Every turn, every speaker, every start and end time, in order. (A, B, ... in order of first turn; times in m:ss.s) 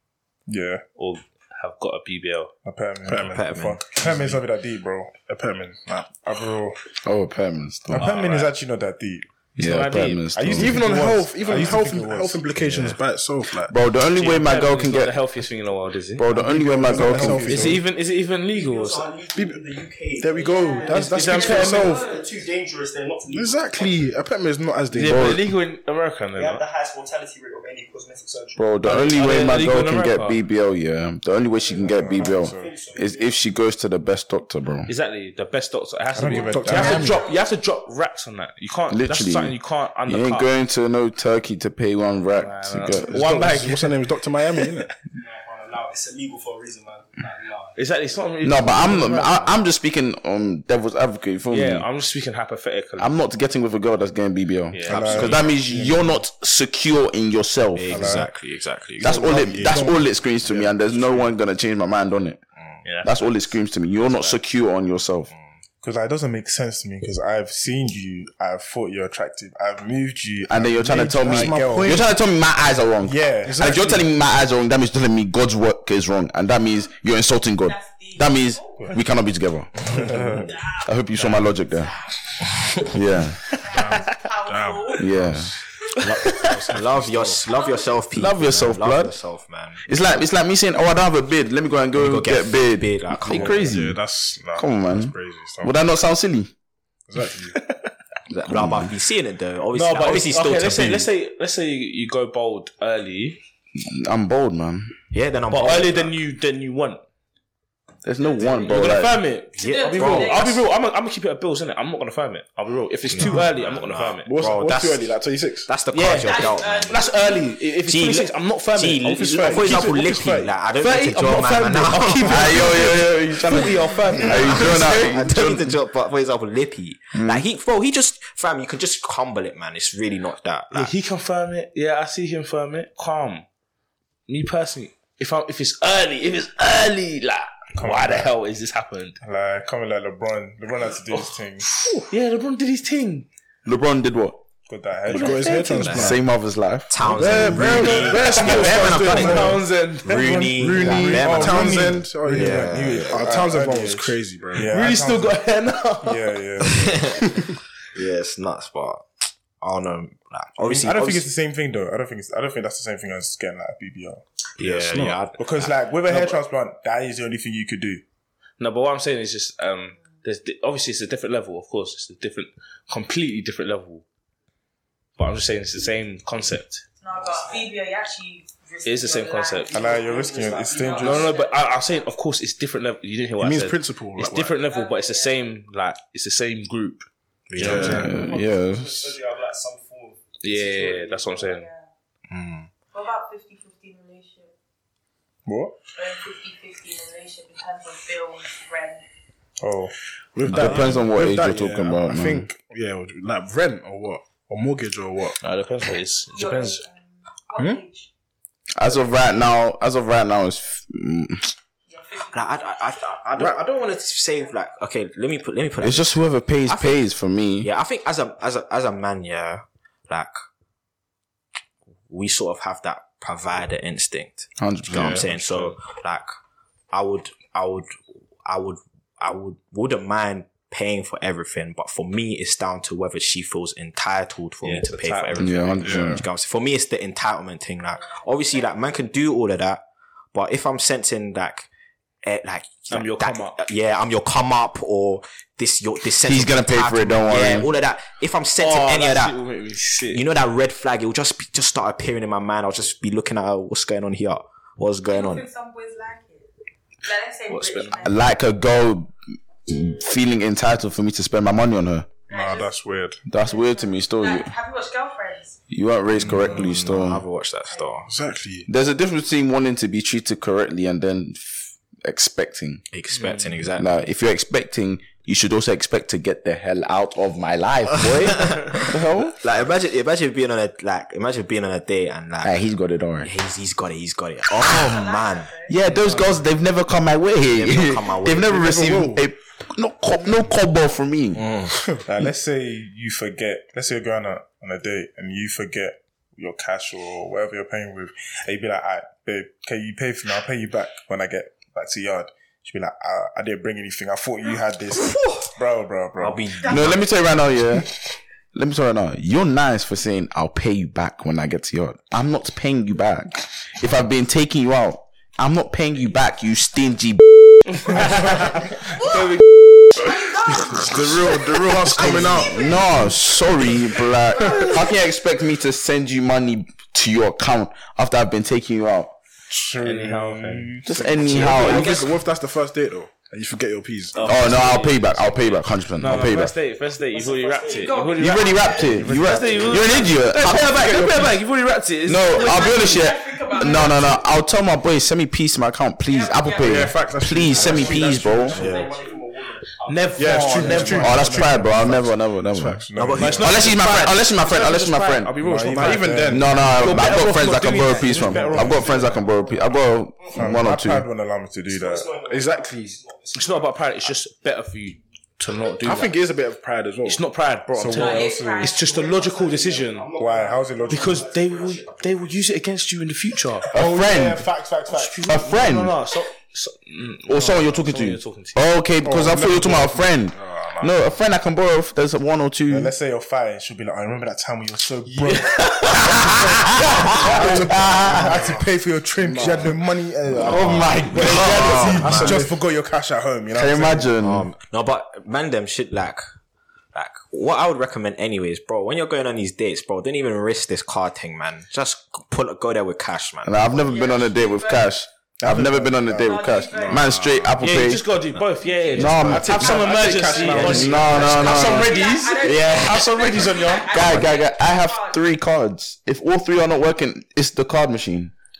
0:00.5-0:00.8 A
0:01.0-0:02.5 B
0:02.6-0:05.2 A
0:03.0-0:03.5 C
0:03.2-0:03.8 D
0:04.0-0:04.4 C
0:05.2-0:06.1 C
0:06.1-0:06.8 A
0:07.0-0:08.1 E
0:07.9-0:09.3 A
0:08.0-0:08.5 B
0:09.6-0:10.8 E
0:09.6-0:10.4 B
0:10.3-0:12.4 A
0:10.5-0:13.7 C
0:11.4-0:11.7 B
0:12.6-0:13.0 D
0:13.7-0:15.2 E
0:14.1-0:16.3 B
0:16.2-0:17.8 E
0:16.3-0:17.8 C
0:16.8-0:17.8 A
0:17.4-0:19.1 B
0:18.4-0:24.2 F
0:19.3-0:19.6 C
0:20.2-0:22.0 C
0:20.4-0:22.3 G
0:20.9-0:21.9 B
0:23.3-0:25.4 C
0:24.9-0:26.6 B
0:25.0-0:25.4 E
0:26.4-0:28.7 F
0:28.6-0:34.9 E
0:28.8-0:30.4 B
0:31.6-0:33.4 F
0:31.8-0:32.7 A
0:34.9-0:40.5 B
0:36.1-0:37.2 A
0:36.3-0:37.2 C
0:36.6-0:37.5 G
0:38.9-0:39.6 E
0:40.1-0:43.2 E
0:42.3-0:44.0 B
0:43.1-0:44.9 C
0:45.2-0:47.7 F
0:47.8-0:49.6 B
0:48.4-0:51.8 E
0:51.5-0:53.2 B
0:53.0-0:58.2 E
0:54.7-0:55.5 B
0:54.9-0:56.2 A
0:57.7-0:59.3 D
0:57.9-0:58.3 A
0:59.0-1:02.4 E
0:59.0-1:01.2 C
1:02.8-1:04.4 B
1:03.0-1:05.3 E
1:05.8-1:12.0 A
1:10.5-1:20.2 E
1:10.9-1:12.1 C
1:13.0-1:13.9 A
1:13.4-1:14.0 C
1:17.6-1:19.0 G
1:19.9-1:20.5 A
1:20.6-1:20.8 G
1:20.8-1:21.9 E
1:22.9-1:23.4 E
1:23.6-1:25.2 G
1:23.7-1:25.6 C
1:25.0-1:25.5 E
1:26.0-1:29.8 D
1:26.3-1:27.4 C
1:27.6-1:27.9 G
1:28.1-1:29.1 E
1:29.9-1:34.0 E
1:31.9-1:33.7 D
1:33.3-1:33.8 A
1:33.6-1:34.7 C
1:34.5-1:35.7 A
1:34.6-1:36.5 E
1:37.1-1:37.6 C
1:38.3-1:41.1 D
1:38.5-1:38.9 E
1:39.7-1:43.4 B
1:43.8-1:44.9 E
1:45.1-1:46.1 D
1:45.5-1:47.0 B
1:48.0-1:49.2 E
1:48.2-1:49.0 G
1:48.6-1:54.3 B
1:49.6-1:50.6 D
1:49.6-1:50.6 G
1:53.1-1:55.1 D
1:54.2-1:55.7 C
1:55.6-1:57.1 D
1:55.9-2:05.1 B
1:56.2-1:57.5 G
1:57.8-2:02.7 D
1:59.3-2:00.5 C
2:02.2-2:05.7 E
2:04.2-2:10.9 D
2:07.1-2:07.4 E
2:10.7-2:13.4 B
2:14.3-2:19.2 B
2:17.7-2:18.3 A
2:19.2-2:21.8 A
2:21.1-2:21.4 B
2:21.9-2:23.3 B
2:23.6-2:24.4 E
2:24.7-2:25.8 A
2:25.1-2:26.2 C
2:25.5-2:26.2 D
2:25.9-2:26.9 E
2:26.9-2:33.2 D
2:27.0-2:34.8 C
2:27.2-2:30.6 B
2:30.7-2:35.4 A
2:34.7-2:36.3 B
2:36.0-2:37.2 A
2:36.6-2:37.2 D
2:37.9-2:39.1 D
2:39.6-2:41.2 D
2:40.6-2:44.2 A
2:44.6-2:46.3 D
2:44.6-2:45.2 C
2:45.3-2:48.0 A
2:48.6-2:54.0 B
2:55.2-2:56.8 B
2:57.0-3:02.1 G
2:57.1-2:57.7 F
2:58.8-2:59.7 B
2:59.7-3:01.3 A
2:59.7-3:01.4 F
3:01.0-3:07.0 B
3:03.4-3:04.6 C
3:04.6-3:05.4 G
3:07.5-3:08.1 D
3:07.6-3:08.2 C
3:07.6-3:07.9 B
3:07.6-3:11.4 F
3:07.7-3:09.1 E
3:10.4-3:11.7 B
3:11.4-3:11.9 G
3:12.3-3:12.7 D
3:12.9-3:14.5 G
3:15.4-3:15.8 A
3:15.9-3:19.0 G
3:19.6-3:19.9 A
3:20.3-3:25.4 C
3:20.5-3:22.5 E
3:25.4-3:26.8 B
3:26.3-3:28.1 G
3:27.6-3:27.8 C
3:28.8-3:31.5 E
3:31.9-3:32.8 G
3:32.3-3:37.0 D
3:35.8-3:37.7 E
3:37.6-3:40.4 D
3:42.1-3:46.3 D
3:44.6-3:45.3 E
3:45.2-3:45.7 B
3:46.9-3:47.9 D
3:48.4-4:01.7 D
3:54.6-3:55.8 B
3:55.4-3:56.2 E
3:57.9-3:59.0 G
4:02.2-4:09.4 D
4:02.9-4:03.6 B
4:06.2-4:07.7 E
4:08.6-4:10.2 B
4:10.1-4:15.4 D
4:15.1-4:16.5 G
4:17.0-4:18.3 G
4:17.5-4:18.0 B
4:18.0-4:19.1 E
4:19.7-4:22.1 E
4:22.3-4:22.8 G
4:22.3-4:23.2 A
4:23.3-4:24.5 E
4:23.3-4:25.6 G
4:25.7-4:27.2 E
4:26.2-4:28.1 D
4:27.7-4:28.0 G
4:28.0-4:28.7 C
4:28.7-4:32.8 E
4:32.9-4:34.0 D
4:33.1-4:33.6 B
4:33.8-4:39.4 E
4:38.4-4:38.8 D
4:39.4-4:42.6 D
4:42.4-4:43.3 E
4:43.2-4:45.5 D
4:44.6-4:45.8 G
4:45.7-4:51.5 E
4:47.5-4:48.8 D
4:48.4-4:49.2 C
4:51.4-4:51.7 D
4:52.0-5:06.4 A
5:06.2-5:07.1 D
5:06.6-5:06.9 G
5:06.6-5:07.9 E
5:08.5-5:18.4 E
5:17.7-5:19.4 B
5:18.8-5:19.4 G
5:19.9-5:24.9 G
5:20.6-5:22.7 C
5:21.9-5:29.2 E
5:29.5-5:31.6 A
5:29.8-5:30.8 B
5:30.8-5:32.0 E
5:31.2-5:34.2 C
5:31.3-5:32.0 B
5:34.1-5:43.0 B
5:34.2-5:36.5 E
5:37.1-5:38.1 F
5:37.6-5:39.1 G
5:38.2-5:41.2 E
5:39.0-5:40.1 A
5:39.1-5:39.8 C
5:40.6-5:41.3 C
5:42.1-5:48.6 E
5:42.2-5:44.2 G
5:46.1-5:47.0 G
5:46.6-5:48.8 C
5:47.4-5:51.0 F
5:48.5-5:48.9 A
5:48.5-5:49.1 G
5:49.8-5:51.4 B
5:50.2-5:52.1 C
5:50.5-5:53.5 A
5:51.0-5:52.8 E
5:52.9-5:53.8 D
5:53.2-5:58.8 B
5:53.4-5:55.4 E
5:55.4-5:56.4 A
5:55.5-5:57.4 C
5:56.3-6:01.1 E
5:58.1-5:59.1 A
5:58.1-5:59.2 C
6:00.3-6:02.2 A
6:01.7-6:03.9 F
6:02.2-6:03.0 C
6:03.3-6:06.2 B
6:05.8-6:07.2 C
6:07.0-6:10.1 B
6:07.7-6:08.8 A
6:07.9-6:09.6 G
6:08.8-6:12.4 F
6:10.2-6:11.2 A
6:10.9-6:13.7 B
6:13.7-6:14.5 E
6:13.7-6:15.3 A
6:14.9-6:18.6 B
6:15.2-6:16.0 E
6:17.3-6:22.9 E
6:19.0-6:20.9 C
6:22.7-6:34.1 A
6:25.2-6:26.5 B
6:25.9-6:28.4 E
6:27.4-6:28.4 C
6:29.2-6:32.5 C
6:30.4-6:32.4 E
6:31.2-6:32.4 D
6:33.5-6:34.5 E
6:34.2-6:36.2 D
6:36.9-6:43.7 D
6:43.4-6:48.0 E
6:43.7-6:44.9 G
6:45.4-6:46.2 A
6:46.0-6:47.2 G
6:47.6-6:54.2 B
6:48.6-6:55.2 G
6:48.9-6:49.8 E
6:49.1-6:51.7 C
6:50.6-6:52.0 E
6:52.5-6:52.8 D
6:53.9-6:58.3 E